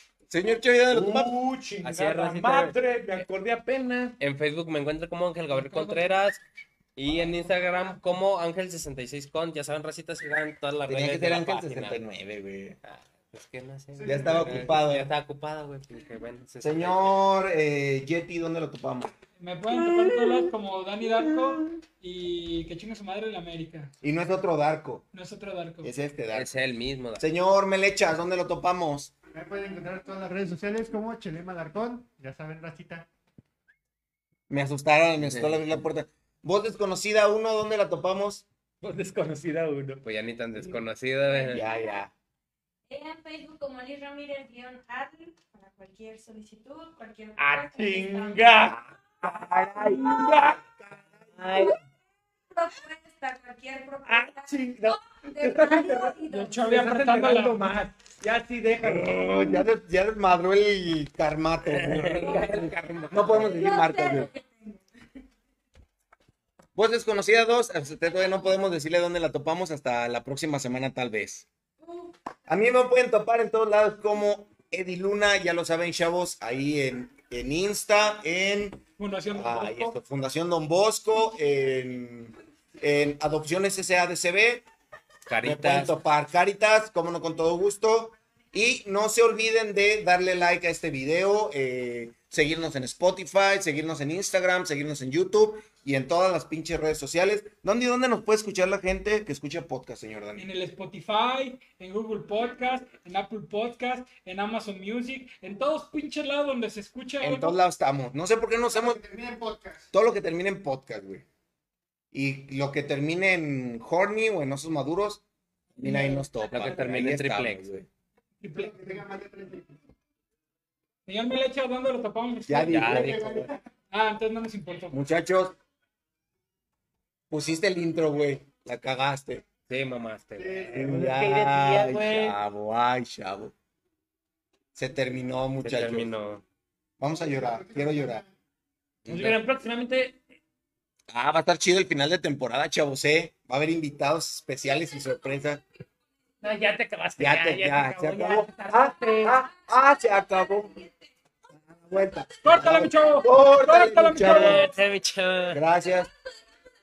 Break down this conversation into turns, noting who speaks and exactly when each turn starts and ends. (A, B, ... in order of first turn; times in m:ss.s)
0:00.3-0:01.3 A
0:00.9-0:04.2 B
0:01.8-0:02.8 C
0:04.2-0:06.4 C
0:05.5-0:06.1 D
0:07.0-0:12.0 C
0:10.9-0:12.8 A
0:12.8-0:17.2 C
0:14.0-0:14.7 E
0:14.0-0:15.1 A
0:16.6-0:19.1 A
0:19.4-0:23.9 D
0:24.0-0:25.0 A
0:25.1-0:25.9 D
0:25.8-0:26.5 A
0:26.3-0:27.2 C
0:27.2-0:29.1 A
0:29.3-0:33.1 E
0:34.5-0:38.4 A
0:35.2-0:35.7 C
0:38.8-0:40.0 B
0:40.0-0:41.7 C
0:41.3-0:42.0 F
0:41.5-0:42.1 A
0:42.9-0:48.7 F
0:47.4-0:48.9 B
0:49.2-0:51.8 A
0:49.4-0:50.6 B
0:52.5-0:56.7 F
0:54.0-0:59.5 B
0:56.3-0:57.8 D
0:58.8-1:02.5 A
1:01.7-1:03.4 C
1:02.3-1:03.1 B
1:03.1-1:04.3 A
1:03.3-1:04.8 F
1:06.8-1:11.5 A
1:11.8-1:12.1 F
1:12.5-1:24.7 A
1:19.0-1:20.0 D
1:25.3-1:25.9 C
1:25.4-1:40.5 A
1:40.4-1:47.6 D
1:47.2-1:49.0 A
1:48.7-1:49.9 E
1:49.9-1:51.2 A
1:52.1-1:55.2 A
1:55.8-1:57.9 A
1:55.8-1:56.2 D
1:56.5-1:57.7 C
1:58.4-1:58.7 D
1:58.5-1:59.8 E
2:01.1-2:02.9 D
2:02.5-2:03.5 A
2:02.7-2:03.3 C
2:02.8-2:03.6 E
2:03.9-2:05.0 D
2:04.9-2:05.6 A
2:07.3-2:09.4 A
2:09.7-2:12.4 C
2:10.4-2:10.9 E
2:10.7-2:13.5 A
2:14.8-2:16.1 A
2:15.6-2:16.4 C
2:17.0-2:18.2 A
2:17.2-2:18.3 E
2:19.1-2:19.4 C
2:19.1-2:20.2 B
2:21.1-2:25.6 A
2:24.7-2:25.6 F
2:26.4-2:29.4 B
2:27.2-2:30.8 A
2:29.6-2:31.0 F
2:31.5-2:34.7 A
2:32.4-2:34.7 D
2:34.2-2:35.6 C
2:35.5-2:36.1 A